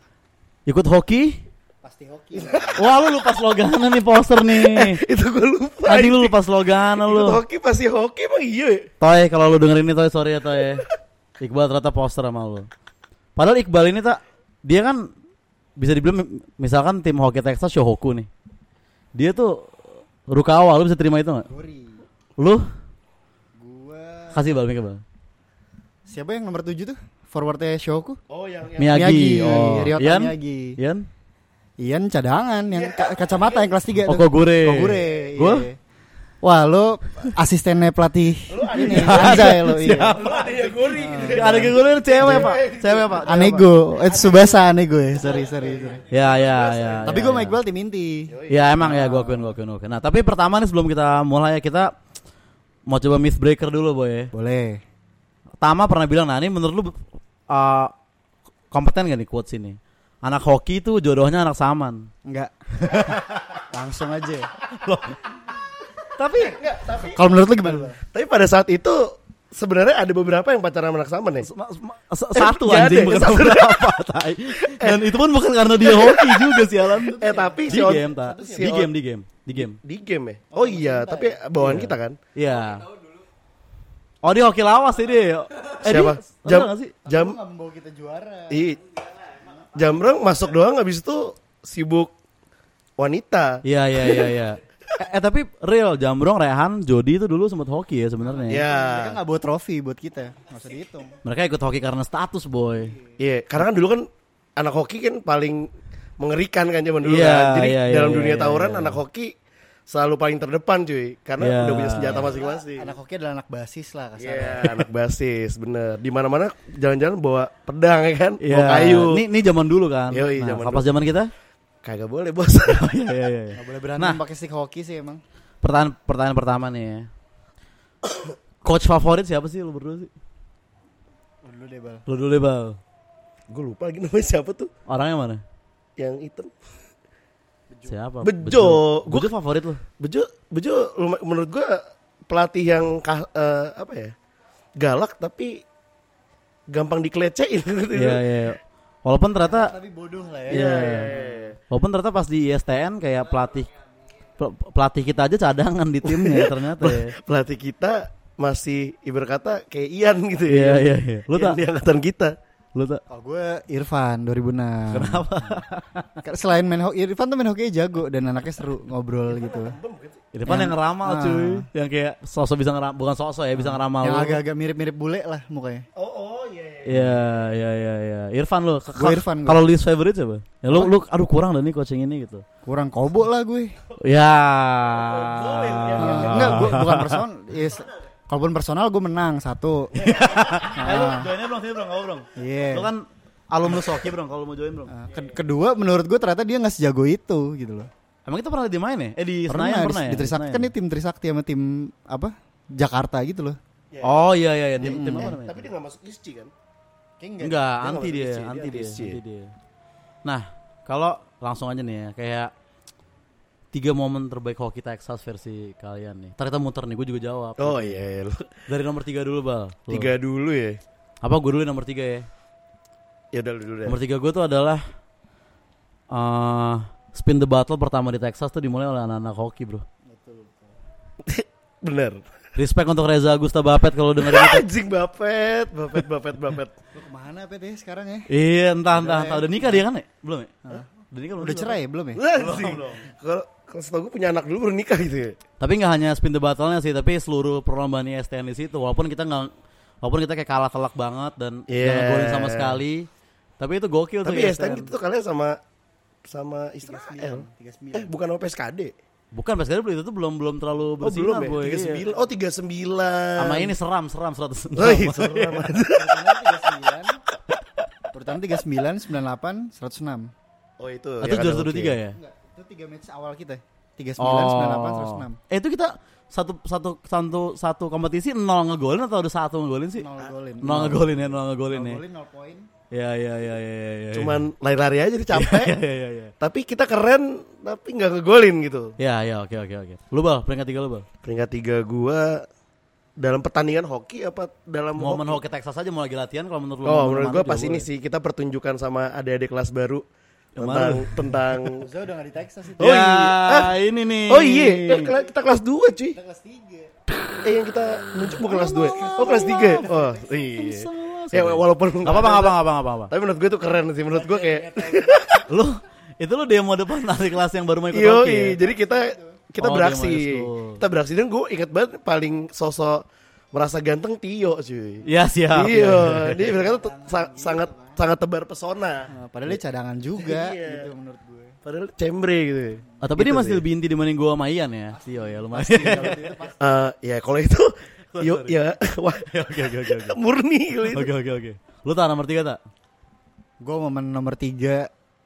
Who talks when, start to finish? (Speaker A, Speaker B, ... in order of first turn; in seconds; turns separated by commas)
Speaker A: 0.7-1.4, Speaker B: 1.8-2.8, Speaker C: 2.4-2.8, Speaker A: 2.8-5.0, Speaker C: 4.5-8.9, Speaker A: 5.8-7.4, Speaker A: 9.0-10.8, Speaker C: 10.6-10.9, Speaker A: 11.4-12.7, Speaker A: 13.4-15.1, Speaker A: 15.8-18.3, Speaker A: 19.2-21.5, Speaker B: 21.5-22.0, Speaker A: 22.4-22.6, Speaker B: 23.6-24.4, Speaker A: 24.3-25.0, Speaker B: 26.1-28.2, Speaker C: 28.3-29.9, Speaker A: 28.8-31.1, Speaker B: 28.9-30.8, Speaker B: 31.8-35.8, Speaker C: 32.7-33.7, Speaker A: 34.0-35.7, Speaker B: 36.4-40.3, Speaker C: 38.5-43.3, Speaker A: 38.8-43.6, Speaker B: 40.9-42.5, Speaker B: 43.2-46.0, Speaker C: 44.0-44.5, Speaker C: 45.3-47.2, Speaker A: 46.1-47.6, Speaker B: 47.0-49.6, Speaker C: 48.3-48.8, Speaker A: 48.5-52.0, Speaker A: 52.9-54.3, Speaker B: 54.3-54.8, Speaker A: 55.6-57.9, Speaker A: 58.7-62.1, Speaker B: 62.2-64.5, Speaker A: 62.8-63.5, Speaker A: 64.7-65.2, Speaker A: 66.2-66.6, Speaker C: 66.4-71.5, Speaker B: 67.0-68.0, Speaker A: 71.4-79.8, Speaker C: 72.3-73.8, Speaker C: 74.5-75.2, Speaker C: 75.8-76.7, Speaker B: 76.9-78.7, Speaker C: 77.2-78.9, Speaker C: 79.5-82.2, Speaker B: 80.5-81.8, Speaker A: 81.6-82.9, Speaker A: 84.2-87.0, Speaker C: 85.8-87.4, Speaker B: 87.0-88.7, Speaker C: 88.5-88.8, Speaker C: 89.7-92.1, Speaker C: 93.0-94.3, Speaker A: 93.6-98.6, Speaker B: 98.2-101.2, Speaker C: 98.5-99.2, Speaker A: 101.2-103.0, Speaker C: 103.2-105.7, Speaker C: 106.2-109.3, Speaker A: 107.0-109.0, Speaker C: 109.9-112.9, Speaker A: 111.4-112.3, Speaker B: 112.1-114.7, Speaker C: 114.2-119.2, Speaker A: 118.4-121.3, Speaker C: 120.1-121.0, Speaker C: 121.8-122.9, Speaker A: 122.7-124.2, Speaker B: 123.5-125.2, Speaker A: 125.6-127.1, Speaker A: 128.6-130.1, Speaker B: 131.4-132.0, Speaker A: 132.1-132.8, Speaker C: 133.5-134.7, Speaker A: 134.9-135.4, Speaker C: 136.0-136.5, Speaker B: 137.7-138.0, Speaker A: 137.9-139.8, Speaker C: 138.2-139.3, Speaker C: 140.0-144.1, Speaker C: 144.8-145.6, Speaker C: 146.7-148.4, Speaker A: 147.9-149.7, Speaker B: 149.4-151.4, Speaker A: 150.5-151.1, Speaker C: 150.5-151.6, Speaker A: 151.7-153.7, Speaker A: 154.4-157.1, Speaker C: 156.1-162.3, Speaker A: 160.5-161.6, Speaker A: 162.8-163.0, Speaker B: 163.1-165.3, Speaker A: 164.9-166.2, Speaker B: 166.2-169.8, Speaker C: 169.3-170.2, Speaker A: 170.3-174.4, Speaker B: 170.4-171.7, Speaker B: 173.5-175.8, Speaker C: 175.9-177.3, Speaker A: 176.8-182.4, Speaker B: 178.9-179.7, Speaker B: 182.6-183.8, Speaker A: 184.0-187.2, Speaker C: 184.9-186.8, Speaker B: 186.0-190.1, Speaker A: 189.9-194.9, Speaker B: 190.6-191.3, Speaker B: 192.3-192.9, Speaker B: 194.9-197.9, Speaker A: 198.2-200.7, Speaker B: 199.5-203.6, Speaker C: 203.9-204.3, Speaker A: 204.0-205.7, Speaker B: 204.8-205.4, Speaker C: 204.8-206.5, Speaker B: 207.2-207.6, Speaker A: 207.4-209.5, Speaker C: 207.8-209.2, Speaker A: 210.2-212.5, Speaker A: 213.7-218.0, Speaker C: 217.6-218.5, Speaker A: 218.7-220.1, Speaker C: 219.9-220.8, Speaker A: 221.2-222.2, Speaker C: 223.3-223.9, Speaker A: 223.8-224.8, Speaker A: 226.1-229.8, Speaker B: 230.1-230.8, Speaker C: 231.2-232.2, Speaker A: 232.6-234.6, Speaker C: 234.2-236.8, Speaker B: 236.9-238.3, Speaker A: 238.3-241.8, Speaker B: 238.9-239.8, Speaker B: 241.4-242.7, Speaker C: 242.2-245.4, Speaker A: 242.4-242.8, Speaker A: 245.6-249.5, Speaker A: 250.0-253.1, Speaker C: 251.7-252.8, Speaker A: 253.6-254.9, Speaker C: 254.2-255.6, Speaker C: 256.3-258.9, Speaker B: 256.8-258.1, Speaker A: 259.3-262.0, Speaker C: 261.0-263.7, Speaker A: 263.4-265.7, Speaker C: 264.8-266.4, Speaker B: 265.9-267.2, Speaker B: 268.1-270.3, Speaker C: 270.8-272.0, Speaker A: 271.2-272.2, Speaker B: 272.1-275.4, Speaker A: 274.2-280.1, Speaker B: 279.9-282.7, Speaker A: 280.6-282.0, Speaker A: 282.9-284.4, Speaker C: 284.1-285.8, Speaker A: 285.3-286.3, Speaker C: 286.4-288.9, Speaker A: 289.0-291.1, Speaker C: 291.2-292.5, Speaker C: 293.2-295.4, Speaker A: 295.0-297.9, Speaker C: 296.9-300.0, Speaker A: 300.6-301.6, Speaker C: 300.6-301.9, Speaker B: 301.8-303.0, Speaker C: 302.8-303.8, Speaker A: 302.8-305.1, Speaker C: 304.3-306.2, Speaker B: 305.1-305.3, Speaker B: 306.1-306.9, Speaker C: 307.4-312.6, Speaker A: 308.3-310.0, Speaker B: 308.5-310.4, Speaker A: 310.5-313.1, Speaker C: 313.1-315.5, Speaker B: 314.1-315.4, Speaker A: 315.5-318.6, Speaker C: 317.9-329.1, Speaker B: 318.6-319.4, Speaker A: 319.6-320.8, Speaker A: 325.1-326.4, Speaker B: 326.4-328.0, Speaker B: 329.1-331.6, Speaker C: 330.2-330.9, Speaker C: 331.6-333.6, Speaker A: 333.0-336.4, Speaker B: 334.9-336.7, Speaker C: 335.9-341.1, Speaker A: 338.1-338.6, Speaker A: 339.2-340.2, Speaker A: 340.9-342.6, Speaker B: 343.6-344.9